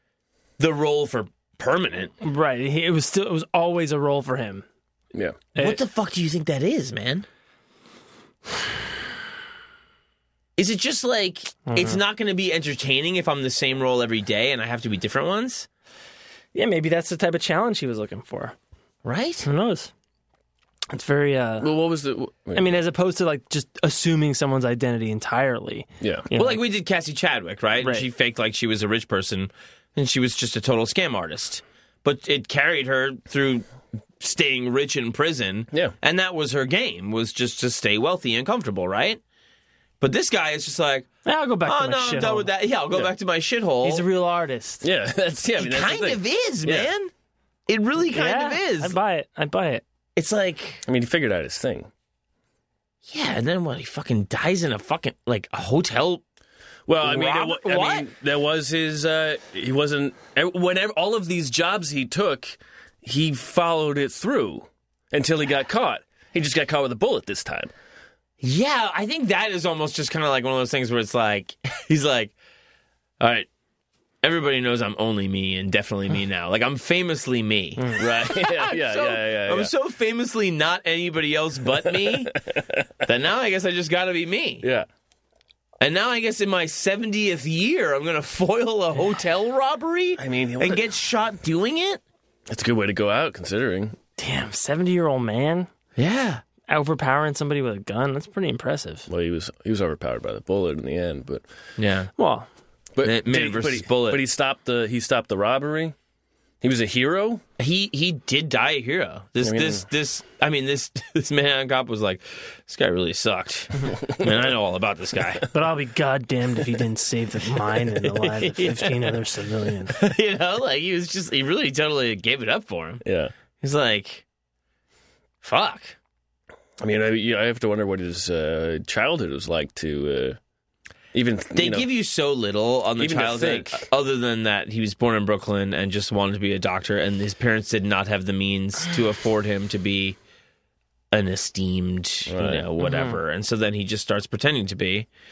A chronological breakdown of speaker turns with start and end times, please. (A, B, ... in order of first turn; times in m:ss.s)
0:00.6-0:02.1 A
0:02.2-0:04.6 B
0:05.1-0:05.4 C
0:05.6-0:07.2 A
0:10.6-0:15.7 A
0:11.7-0:12.0 B
0:16.5-0:18.5 B
0:19.0-0:19.4 A
0:19.4-0:19.9 B
0:20.9-0:21.7 B
0:21.6-0:22.8 C
0:22.5-0:26.6 B
0:26.0-0:26.3 C
0:26.3-0:33.6 A
0:27.8-0:28.1 B
0:34.2-0:39.2 A
0:40.0-0:41.1 A
0:41.2-0:42.5 B
0:41.6-0:44.0 A
0:43.8-0:44.8 B
0:44.8-0:46.9 C
0:45.6-0:47.1 A
0:47.7-0:49.0 A
0:48.1-0:49.8 B
0:50.2-0:50.8 A
0:50.8-0:51.9 C
0:53.0-0:56.2 A
0:56.9-1:07.7 C
0:57.0-0:58.1 A
1:08.4-1:12.3 A
1:13.2-1:13.5 A
1:14.2-1:22.3 A
1:18.0-1:19.7 C
1:21.9-1:22.9 C
1:23.0-1:24.6 A
1:24.6-1:24.9 C
1:25.8-1:32.0 A
1:30.2-1:30.8 C
1:32.5-1:34.0 C
1:34.2-1:35.7 B
1:36.0-1:36.4 A
1:36.7-1:39.1 B
1:39.1-1:41.4 C
1:41.8-1:42.1 A
1:42.2-1:42.5 B
1:43.0-1:45.9 C
1:43.0-1:44.2 A
1:46.6-1:47.4 C
1:47.6-1:55.4 A
1:49.4-1:49.8 C
1:53.9-1:54.3 C
1:55.5-1:59.9 B
1:58.1-1:59.2 A
1:59.9-2:03.0 A
2:03.0-2:03.3 C
2:03.6-2:04.2 A
2:05.4-2:06.0 A
2:06.8-2:10.4 C
2:11.1-2:11.9 C
2:11.5-2:20.2 A
2:13.0-2:13.9 C
2:21.1-2:25.1 A
2:22.3-2:22.7 C
2:22.8-2:23.2 B